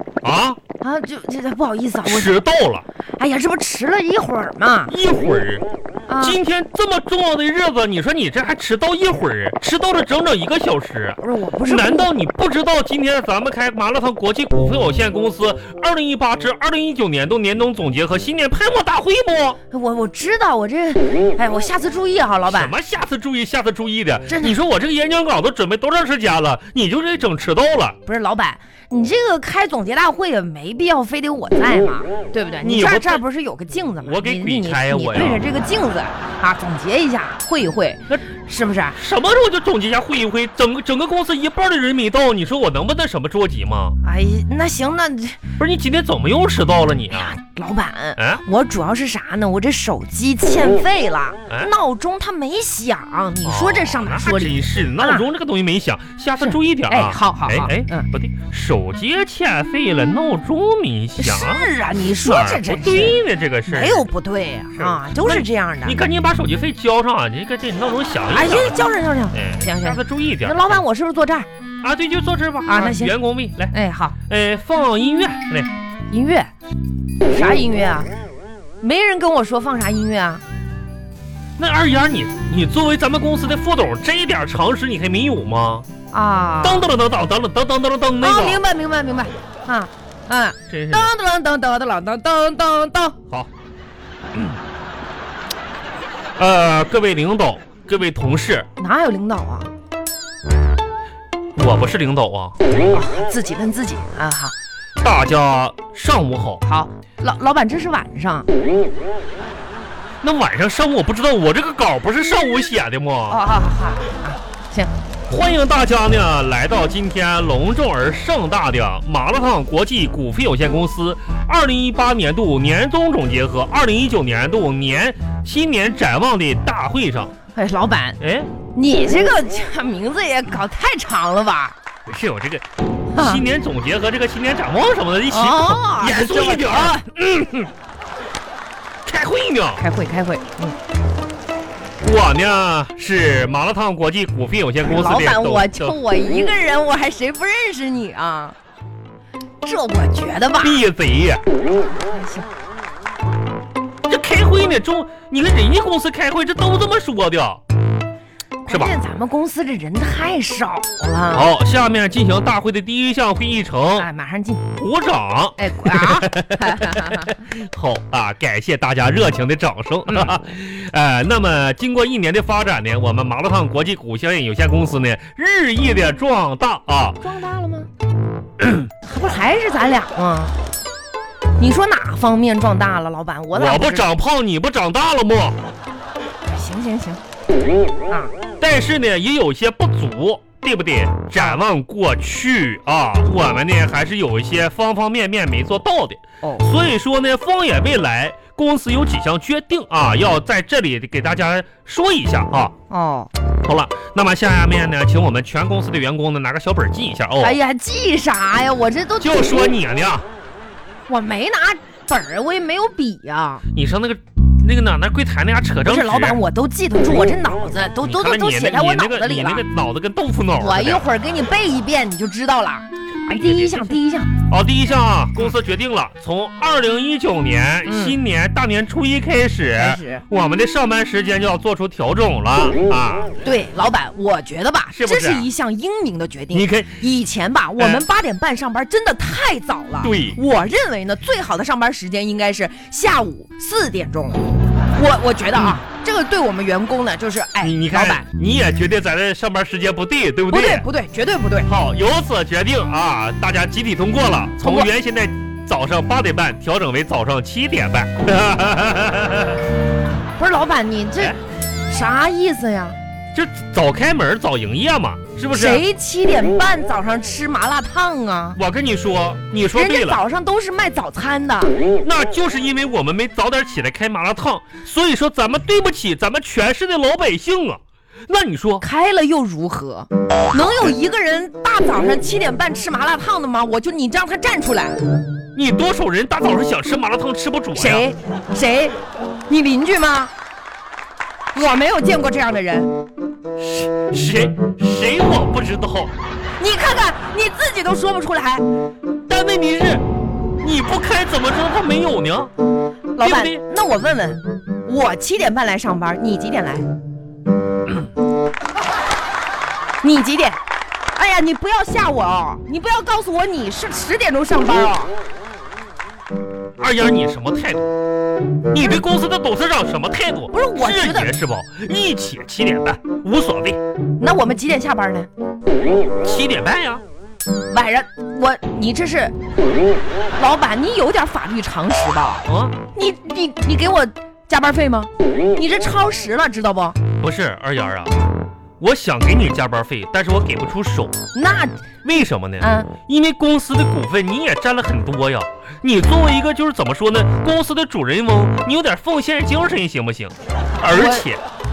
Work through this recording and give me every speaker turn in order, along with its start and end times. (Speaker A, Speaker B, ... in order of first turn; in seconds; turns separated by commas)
Speaker A: 0.2-0.6, Speaker B: 0.8-2.3, Speaker A: 2.0-2.8, Speaker B: 3.2-4.9, Speaker A: 4.9-5.7, Speaker B: 6.1-6.4, Speaker A: 6.2-19.6, Speaker B: 11.2-12.1, Speaker B: 19.7-22.7, Speaker A: 22.5-28.0, Speaker B: 24.3-24.6, Speaker B: 28.1-39.0, Speaker A: 32.6-33.2, Speaker A: 34.0-35.4, Speaker A: 39.0-44.0, Speaker B: 44.0-45.4, Speaker A: 45.6-47.4, Speaker B: 47.1-55.3, Speaker A: 48.1-48.4, Speaker A: 51.5-51.7, Speaker A: 53.4-64.0, Speaker B: 56.4-58.1, Speaker B: 61.2-66.0, Speaker A: 64.8-68.8, Speaker B: 68.3-71.5, Speaker A: 69.3-70.8, Speaker A: 71.8-73.7, Speaker B: 72.7-73.1, Speaker B: 73.7-74.2, Speaker A: 74.3-75.7, Speaker B: 76.1-76.5, Speaker B: 77.3-78.1, Speaker B: 78.8-80.4, Speaker A: 81.6-85.9, Speaker B: 86.1-86.9, Speaker A: 86.6-88.6, Speaker B: 88.2-93.2, Speaker A: 90.7-91.1, Speaker A: 96.4-98.7, Speaker B: 98.8-99.7, Speaker A: 101.5-102.7, Speaker B: 102.9-104.5, Speaker A: 105.0-106.6, Speaker B: 106.6-108.5, Speaker A: 110.2-113.5, Speaker B: 113.3-114.9, Speaker A: 115.3-127.3, Speaker B: 127.5-128.2, Speaker A: 128.2-128.5, Speaker B: 128.7-131.8, Speaker A: 132.1-137.7, Speaker B: 133.1-133.4, Speaker B: 135.3-137.1, Speaker A: 139.1-139.8, Speaker B: 139.8-140.8, Speaker A: 142.0-146.0, Speaker B: 144.8-148.6, Speaker B: 149.6-150.9, Speaker A: 150.6-151.4, Speaker B: 152.0-152.5, Speaker A: 154.1-157.6, Speaker B: 158.6-161.5, Speaker A: 158.7-158.9, Speaker A: 161.3-164.1, Speaker B: 164.0-164.6, Speaker A: 164.8-177.2, Speaker B: 165.6-167.5, Speaker B: 170.1-170.4, Speaker B: 177.2-177.9, Speaker A: 178.6-178.9, Speaker B: 179.0-180.6, Speaker B: 181.6-184.1, Speaker A: 183.5-185.6, Speaker B: 186.5-187.2, Speaker A: 188.6-202.7, Speaker B: 191.4-191.6, Speaker B: 202.9-203.3, Speaker A: 203.6-207.6, Speaker B: 207.4-209.6, Speaker A: 209.2-210.2, Speaker B: 211.1-213.6, Speaker A: 213.7-216.4, Speaker B: 215.8-219.7, Speaker A: 218.0-221.1, Speaker B: 220.6-224.3, Speaker A: 223.2-223.9, Speaker A: 224.5-233.3, Speaker B: 227.9-228.2, Speaker B: 229.8-230.2, Speaker B: 233.4-248.2, Speaker A: 234.9-235.5, Speaker A: 236.5-237.0, Speaker A: 237.8-238.1, Speaker A: 240.0-240.4, Speaker A: 245.6-245.8, Speaker A: 247.6-250.8, Speaker B: 250.5-251.7, Speaker A: 251.6-259.6, Speaker B: 254.6-254.9, Speaker B: 260.4-261.4, Speaker B: 261.9-262.9, Speaker A: 263.3-265.8, Speaker B: 265.5-268.6, Speaker A: 268.6-270.2, Speaker B: 269.7-271.8, Speaker A: 272.0-278.9, Speaker B: 278.8-285.0, Speaker A: 285.6-288.1, Speaker B: 287.7-290.3, Speaker B: 291.5-292.9, Speaker A: 293.6-296.1, Speaker B: 296.6-298.7, Speaker A: 299.3-300.1, Speaker A: 300.6-302.5, Speaker B: 303.2-306.9, Speaker A: 303.2-303.6, Speaker B: 310.0-310.6, Speaker B: 311.1-315.1, Speaker A: 316.8-317.9, Speaker A: 318.7-323.8, Speaker B: 320.5-321.3, Speaker B: 324.2-325.3, Speaker A: 326.2-327.0, Speaker B: 327.7-329.4, Speaker B: 330.4-337.0, Speaker A: 332.4-332.8, Speaker A: 337.2-338.2, Speaker A: 338.8-341.2, Speaker B: 341.4-341.9, Speaker A: 342.0-351.4, Speaker B: 342.6-342.9, Speaker B: 350.9-351.2